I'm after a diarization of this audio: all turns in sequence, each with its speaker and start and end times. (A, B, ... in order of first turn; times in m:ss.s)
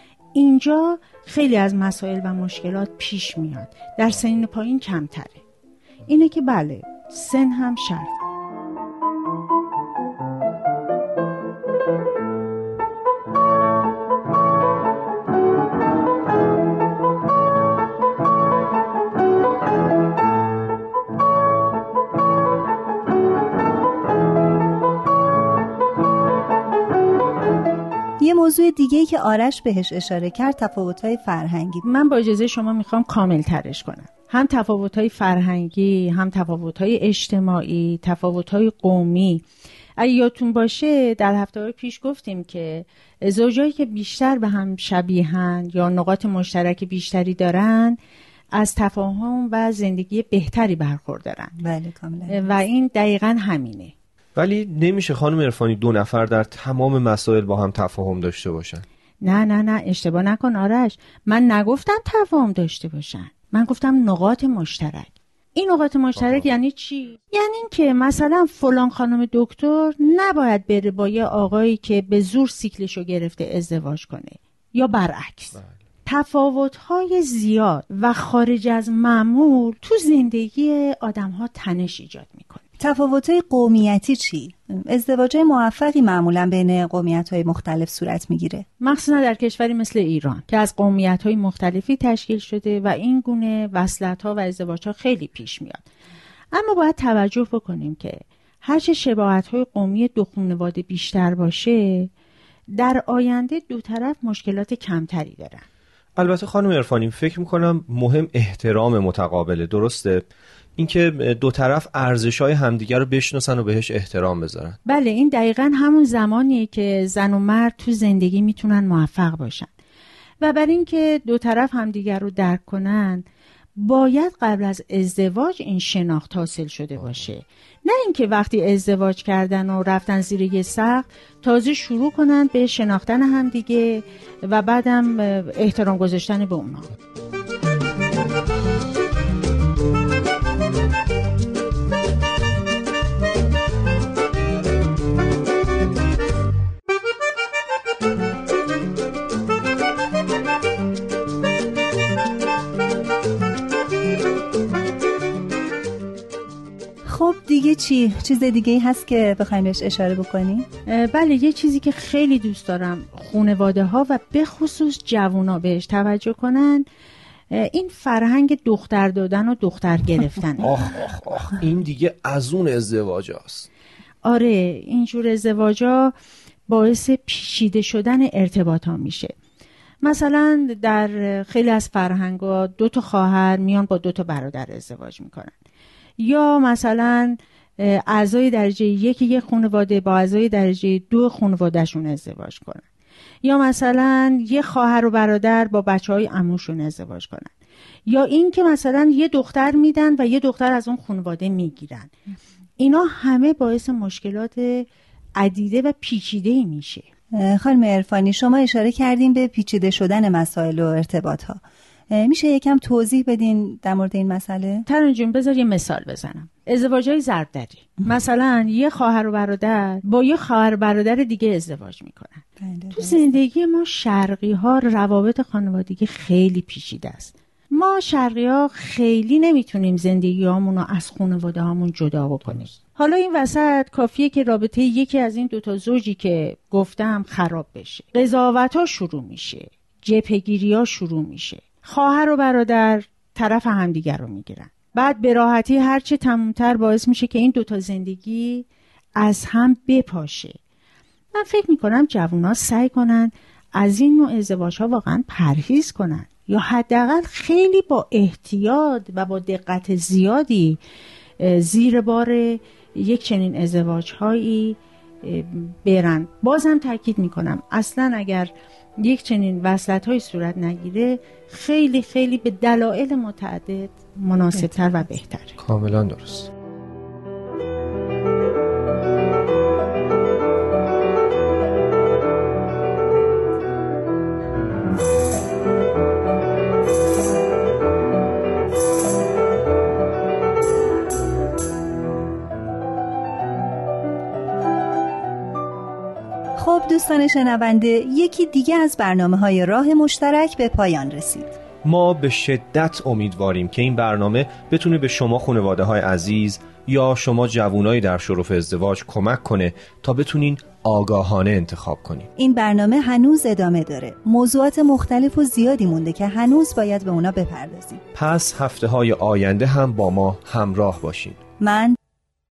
0:00.3-0:05.4 A
0:06.0-0:08.2 A
0:28.2-0:31.8 B
0:31.8-0:39.4 A
0:40.0-0:48.0 A
0:48.5-0:51.5 A
0:51.6-0:52.4 B
0:52.3-0:53.9 A
0:54.4-0:58.8 C
0:59.2-1:22.6 A
1:22.8-1:28.6 B
1:28.8-1:35.8 A
1:36.5-1:42.1 A
1:42.8-1:45.6 A
1:46.2-1:50.2 C
1:50.8-1:54.8 C
1:54.8-1:59.7 A
2:00.4-2:03.2 A
2:03.8-2:16.9 A
2:37.0-2:40.7 B
2:40.8-2:46.9 A
2:47.5-2:50.8 A
2:50.6-2:53.7 C
2:54.2-2:56.1 A
2:56.7-2:59.3 A
3:00.0-3:05.6 A
3:06.2-3:12.8 A
3:13.4-3:17.5 A
3:18.0-3:22.1 A
3:22.8-3:27.0 A
3:27.3-3:34.8 B
3:34.9-4:10.6 A
3:42.6-3:43.2 B
4:11.3-4:20.8 A
4:21.4-4:35.6 A
4:35.6-4:36.5 C
4:56.6-5:01.6 B
5:01.8-5:12.3 C
5:12.4-5:18.0 B
5:18.1-5:21.4 C
5:21.6-5:22.0 B